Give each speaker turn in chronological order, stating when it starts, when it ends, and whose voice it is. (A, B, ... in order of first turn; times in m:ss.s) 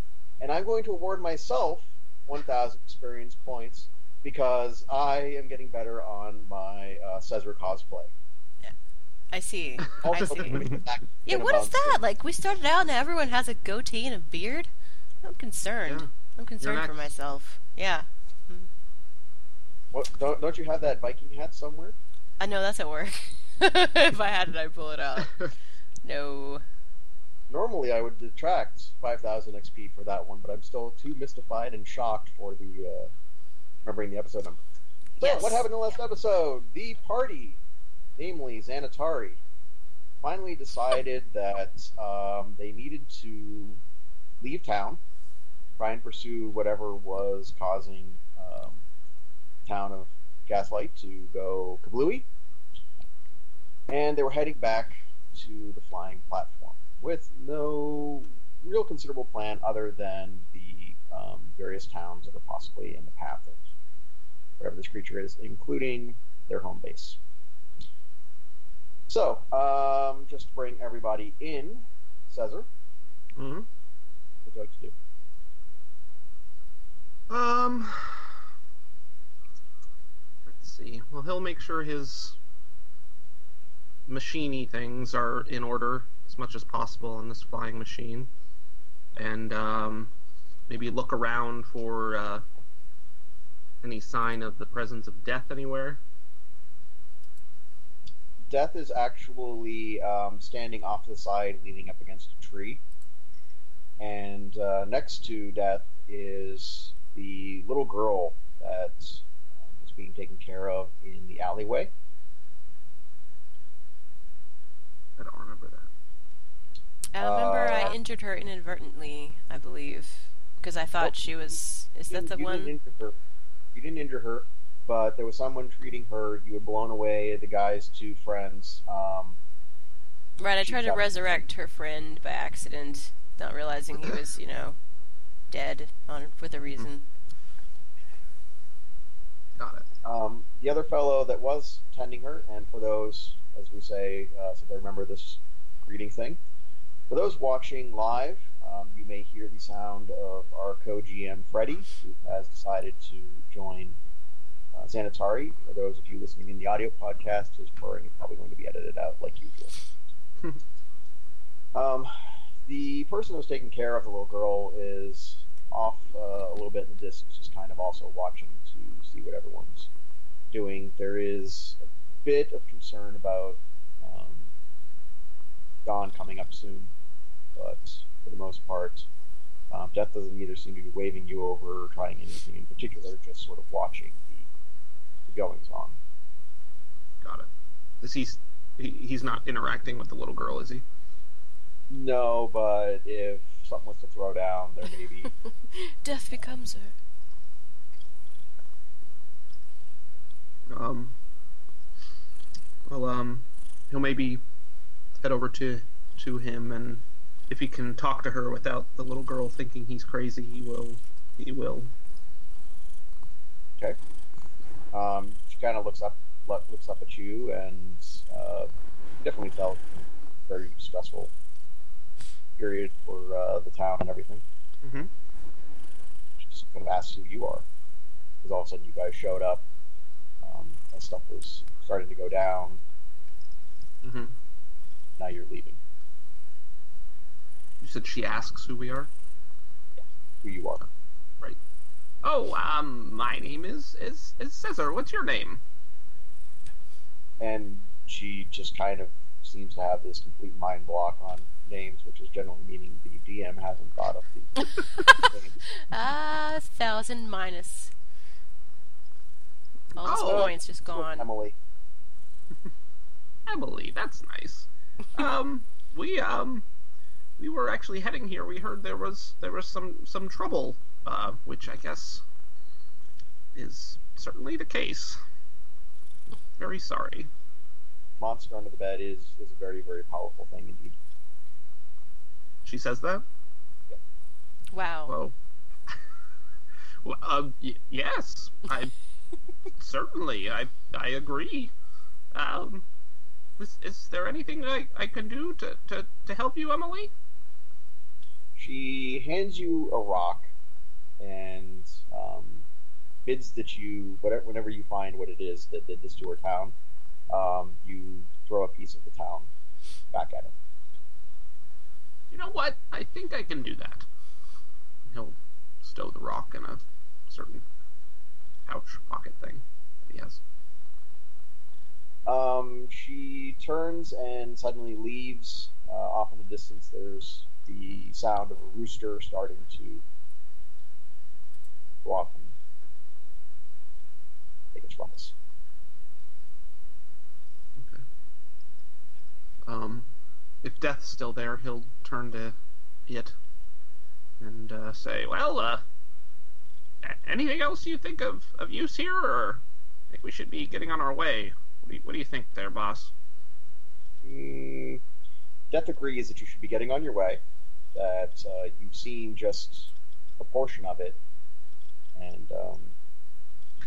0:00.4-0:08.1 A
0:09.3-0:14.7 B
0:10.0-0:12.0 A
0:10.1-0:10.4 C
0:15.2-0:18.7 B
0:16.6-0:17.1 C
0:19.9-0:22.0 A
0:22.4-0:25.3 B
0:26.0-0:26.6 B
0:27.5-0:33.1 A
0:33.8-0:34.6 A
0:35.2-0:35.6 B
0:35.2-0:37.6 A
0:38.2-0:39.4 A
0:40.2-0:43.8 A
0:44.4-0:45.0 A
0:45.8-0:48.8 A
0:49.7-0:52.3 A
0:53.9-1:03.6 A
1:04.6-1:07.2 A
1:09.1-1:12.7 A
1:13.4-1:13.7 C
1:14.4-1:14.9 A
1:17.3-1:18.4 C
1:20.4-1:22.4 C
1:24.1-1:28.3 C
1:29.2-1:30.1 C
1:30.7-1:32.4 C
1:33.8-1:36.0 C
1:38.5-1:42.8 A
1:44.0-1:51.9 A
1:55.2-1:55.9 C
1:57.1-2:02.7 B
1:57.2-1:58.0 A
2:01.0-2:01.5 A
2:02.1-2:03.2 A
2:03.7-2:09.4 A
2:10.4-2:14.8 B
2:10.6-2:11.4 A
2:15.5-2:17.1 B
2:19.6-2:19.9 C
2:20.0-2:26.4 A
2:27.1-2:34.0 A
2:34.7-2:39.8 A
2:41.7-2:42.1 A
2:42.6-2:49.9 A
2:50.5-2:54.5 A
2:55.8-2:56.9 A
2:57.6-2:59.1 A
2:59.7-3:04.5 A
3:05.3-3:06.0 A
3:07.2-3:07.5 C
3:08.0-3:10.8 C
3:11.9-3:15.3 A
3:15.7-3:16.9 B
3:20.7-3:21.1 C
3:22.9-3:24.4 C
3:25.2-3:31.9 C
3:34.9-3:41.3 A
3:42.6-3:44.4 A
3:44.8-3:45.1 C
3:46.4-3:47.6 A
3:48.4-3:49.6 A
3:50.4-3:52.8 A
3:54.0-3:54.3 C
3:55.2-3:55.8 A
3:57.8-3:59.1 C
4:00.4-4:00.8 A
4:02.2-4:05.6 C
4:07.4-4:15.5 A
4:14.8-4:17.9 B
4:20.0-4:21.3 B
4:20.0-4:20.5 C
4:20.0-4:21.6 A
4:23.5-4:26.6 C
4:27.4-4:32.2 C
4:33.6-4:35.2 C
4:36.6-4:37.3 C
4:38.2-4:41.0 A
4:42.6-4:43.2 C
4:44.7-4:45.2 B
4:45.1-4:45.3 C
4:47.0-4:48.9 C
4:49.7-4:51.7 C
4:52.3-4:52.8 C
4:53.6-4:57.1 C
4:58.6-5:00.5 A
5:01.2-5:02.6 A
5:03.2-5:06.8 A
5:07.3-5:09.5 A
5:10.1-5:10.6 A
5:12.3-5:14.1 C
5:15.1-5:17.6 C
5:18.7-5:20.4 C
5:22.2-5:30.0 A
5:32.0-5:32.6 A
5:34.7-5:35.3 A
5:37.8-5:38.0 C
5:39.7-5:40.1 C
5:40.6-5:42.6 C
5:43.1-5:43.3 C
5:44.4-5:45.8 C
5:47.0-5:53.1 C
5:54.2-5:55.0 A
5:55.7-5:57.4 A
5:57.9-6:01.2 A
6:02.1-6:02.9 A